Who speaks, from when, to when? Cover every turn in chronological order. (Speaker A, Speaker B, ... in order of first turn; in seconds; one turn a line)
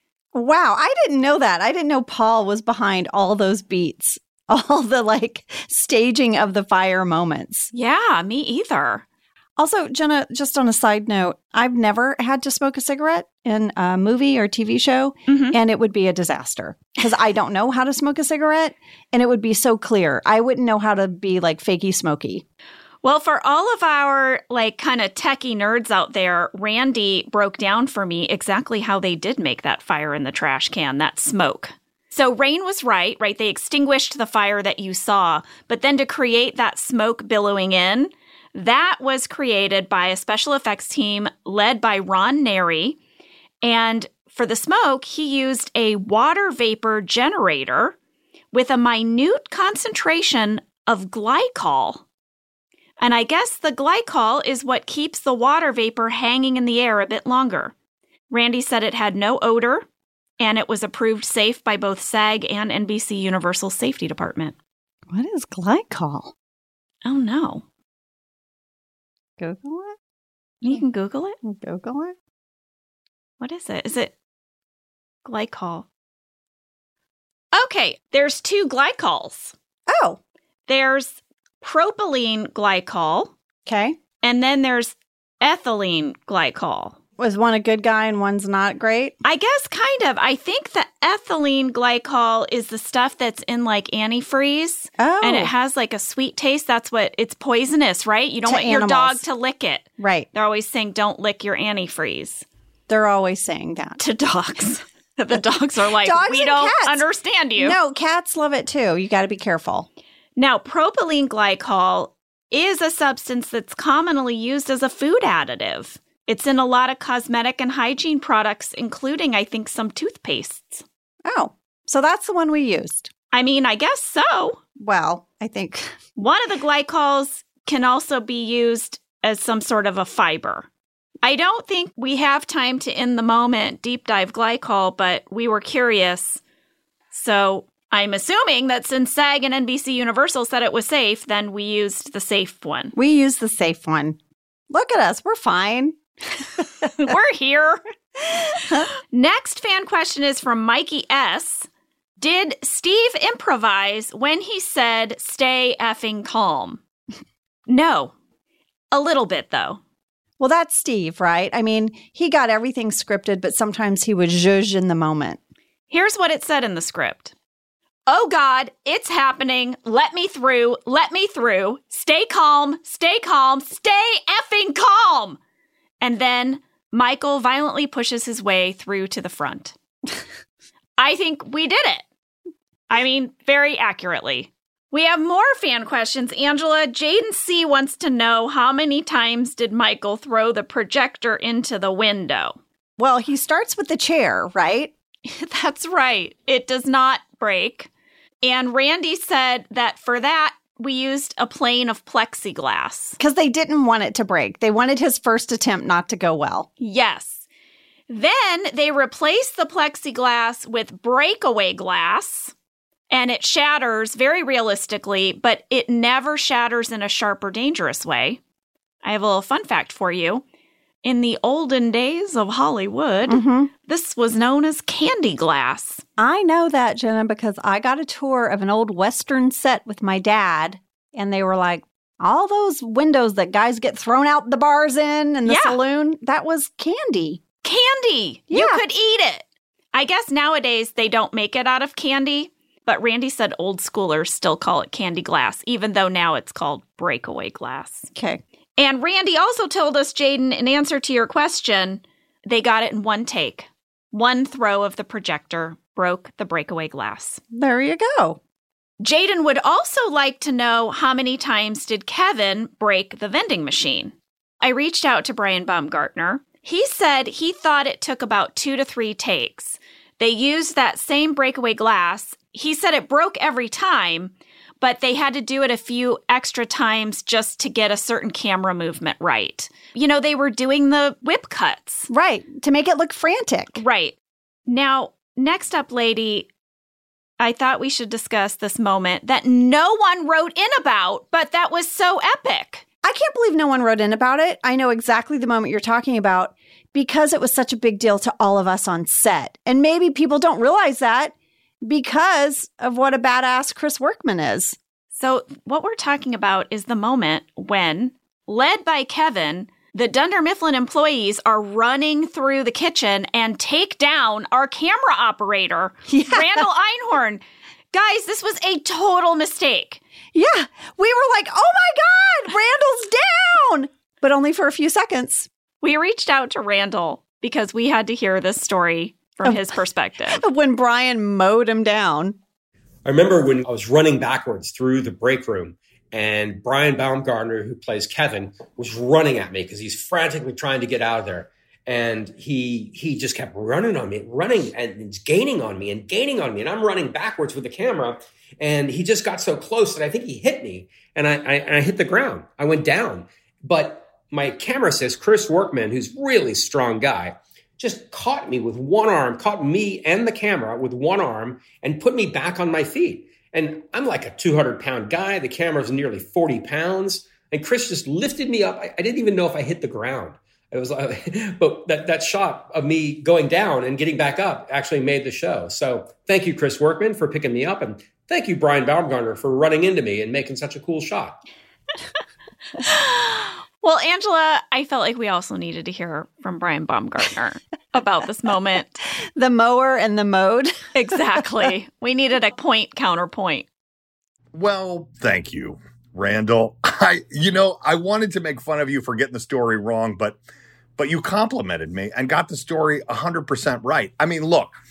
Speaker A: 0.3-7.7
Speaker B: 7.7-9.1
Speaker A: 9.6-22.4
Speaker B: 15.3-15.6
Speaker B: 23.0-43.0
Speaker B: 43.6-48.0
Speaker B: 48.5-52.0
Speaker B: 53.0-57.7
Speaker B: 58.3-59.9
Speaker B: 60.4-64.6
Speaker A: 65.1-66.3
Speaker B: 67.0-67.6
Speaker A: 69.4-70.0
Speaker B: 70.6-71.4
Speaker A: 71.4-72.1
Speaker B: 73.4-74.1
Speaker B: 75.2-75.9
Speaker B: 77.5-79.5
Speaker A: 79.9-80.2
Speaker B: 80.7-83.3
Speaker A: 83.7-84.0
Speaker B: 84.2-87.0
Speaker A: 87.2-89.2
Speaker B: 89.2-102.5
Speaker A: 95.0-95.5
Speaker A: 98.5-99.2
Speaker A: 100.0-100.3
Speaker A: 102.9-104.0
Speaker B: 104.0-107.8
Speaker A: 106.0-107.0
Speaker A: 107.6-109.9
Speaker B: 110.4-120.8
Speaker A: 121.3-123.1
Speaker B: 123.3-124.6
Speaker A: 124.8-126.0
Speaker B: 126.2-130.7
Speaker B: 131.2-136.4
Speaker B: 137.1-142.9
Speaker A: 142.9-144.2
Speaker A: 144.7-146.0
Speaker B: 146.8-147.8
Speaker B: 149.1-151.7
Speaker B: 152.2-156.8
Speaker B: 157.7-158.1
Speaker B: 158.9-159.8
Speaker A: 160.4-165.4
Speaker B: 165.9-167.3
Speaker B: 168.1-175.4
Speaker B: 176.0-179.8
Speaker B: 181.0-182.0
Speaker B: 182.9-192.6
Speaker A: 193.0-194.9
Speaker B: 195.2-197.9
Speaker B: 198.4-203.2
Speaker A: 203.2-206.7
Speaker B: 206.8-207.5
Speaker B: 208.1-212.5
Speaker B: 213.1-218.4
Speaker B: 219.0-220.4
Speaker B: 221.0-226.0
Speaker A: 223.3-223.7
Speaker A: 226.2-237.4
Speaker B: 235.5-235.8
Speaker B: 237.6-248.1
Speaker A: 238.5-238.8
Speaker A: 248.1-248.4
Speaker B: 248.8-257.4
Speaker A: 257.5-258.4
Speaker B: 259.0-282.1
Speaker A: 282.1-283.8
Speaker B: 283.8-284.1
Speaker B: 284.7-286.5
Speaker B: 287.4-292.9
Speaker A: 293.0-304.8
Speaker B: 305.1-320.0
Speaker A: 316.1-316.7
Speaker A: 320.3-325.5
Speaker B: 325.8-330.4
Speaker A: 330.3-332.4
Speaker C: 333.1-381.4
Speaker B: 382.8-389.0
Speaker A: 389.4-390.8
Speaker B: 390.9-393.6
Speaker D: 394.5-400.4
Speaker D: 401.0-404.8